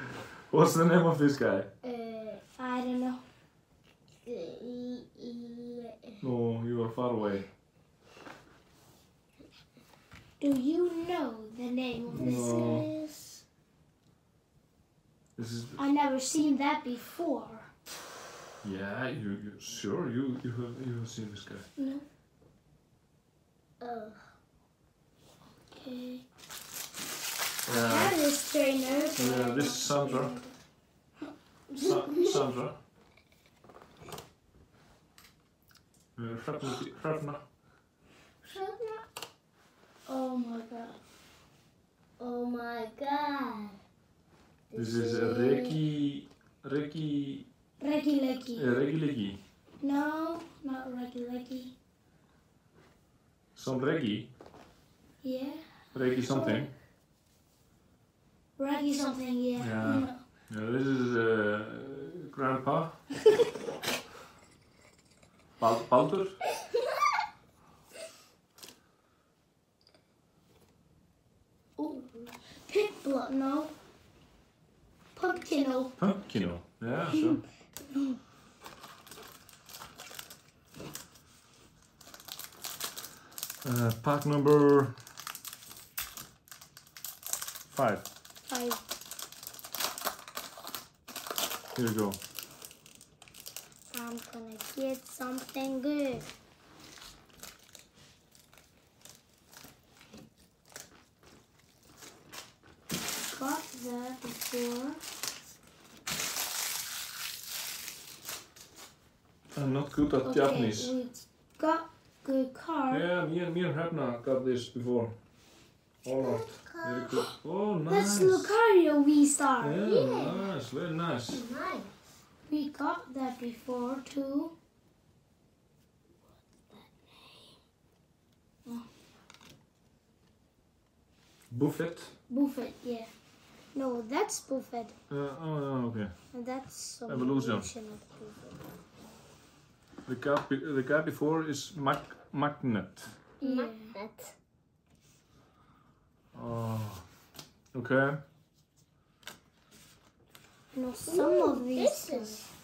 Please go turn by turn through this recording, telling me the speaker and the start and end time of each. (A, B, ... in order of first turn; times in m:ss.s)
0:00.5-0:01.7 A
0:01.8-0:02.4 B
0:02.6-0:03.2 C
0:04.2-0:06.2 B
0:06.2-0:07.5 A
0:10.4-0:12.8 C
0:12.0-0:12.9 A
0:12.2-0:13.4 B
0:15.4-0:15.8 A
0:15.8-0:17.7 C
0:18.6-0:21.7 A
0:21.8-0:22.0 C
0:23.8-0:24.3 B
0:25.7-0:26.2 C
0:27.6-0:28.2 A
0:27.7-0:30.5 C
0:29.2-0:30.4 A
0:31.8-0:32.8 A
0:31.8-0:32.4 C
0:36.2-0:37.4 A
0:38.4-0:39.0 B
0:40.0-0:41.0 C
0:42.2-0:43.8 B
0:44.7-0:45.8 B
0:44.7-0:47.5 A
0:47.8-0:48.7 C
0:48.5-0:49.4 A
0:49.8-0:51.7 C
0:53.5-0:54.3 A
0:55.2-0:56.7 C
0:55.9-0:56.7 A
0:58.6-1:00.2 C
0:59.6-1:03.0 A
1:05.6-1:06.4 A
1:11.8-1:13.7 C
1:15.1-1:16.0 C
1:16.0-1:17.4 A
1:17.8-1:18.2 C
1:23.6-1:25.0 A
1:27.7-1:28.0 A
1:28.4-1:28.8 C
1:31.7-1:32.2 A
1:33.9-1:36.3 C
1:43.3-1:45.0 C
1:49.5-1:50.9 A
1:50.2-1:53.1 C
1:52.9-1:55.2 A
1:56.0-1:58.5 A
1:56.2-1:57.2 B
1:57.9-1:59.8 C
1:59.6-2:01.4 A
1:59.8-2:00.5 B
2:01.3-2:02.0 B
2:02.4-2:04.5 C
2:06.7-2:07.5 C
2:11.5-2:12.2 A
2:12.3-2:13.1 C
2:13.7-2:15.0 C
2:15.1-2:16.2 A
2:16.3-2:18.5 C
2:17.1-2:17.7 A
2:20.0-2:23.2 A
2:23.4-2:23.9 C
2:23.4-2:24.3 B
2:26.3-2:27.1 A
2:27.7-2:28.2 A
2:30.7-2:32.4 C
2:31.0-2:32.5 B